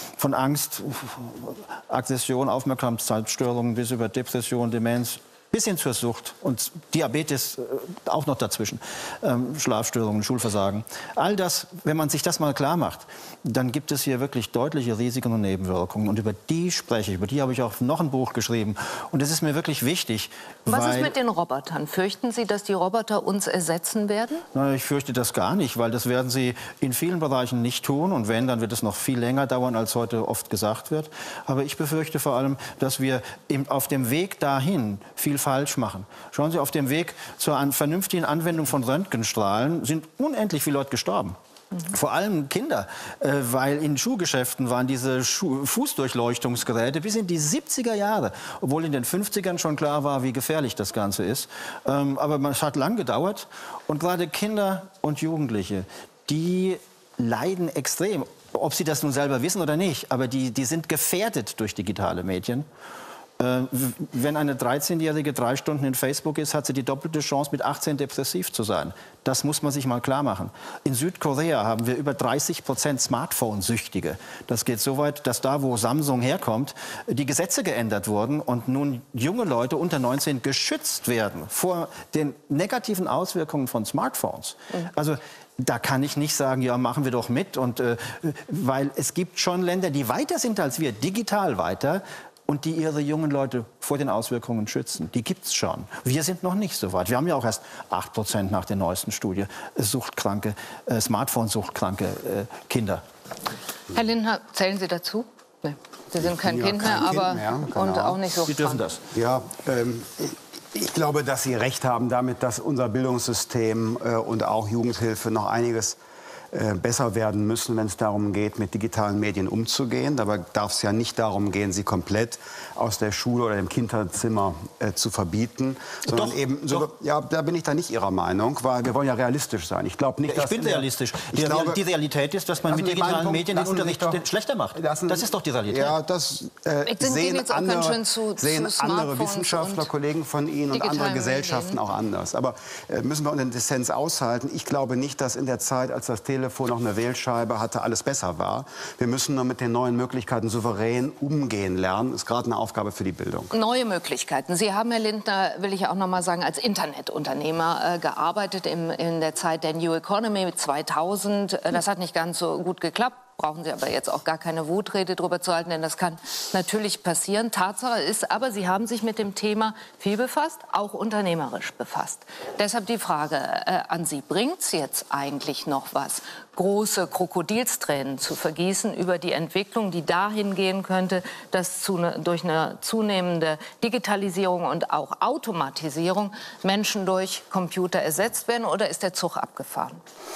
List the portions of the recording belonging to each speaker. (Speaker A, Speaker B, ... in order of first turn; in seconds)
Speaker A: 0.2-21.1, 24.5-62.6, 63.4-103.0, 108.4-109.0, 126.0-126.9, 130.3-136.0
Speaker B: 20.7-24.4, 103.9-108.8, 136.8-139.9, 140.7-141.8, 153.5-190.0
Speaker C: 106.3-108.2, 109.1-116.0, 116.5-131.8, 132.7-134.2, 134.7-153.5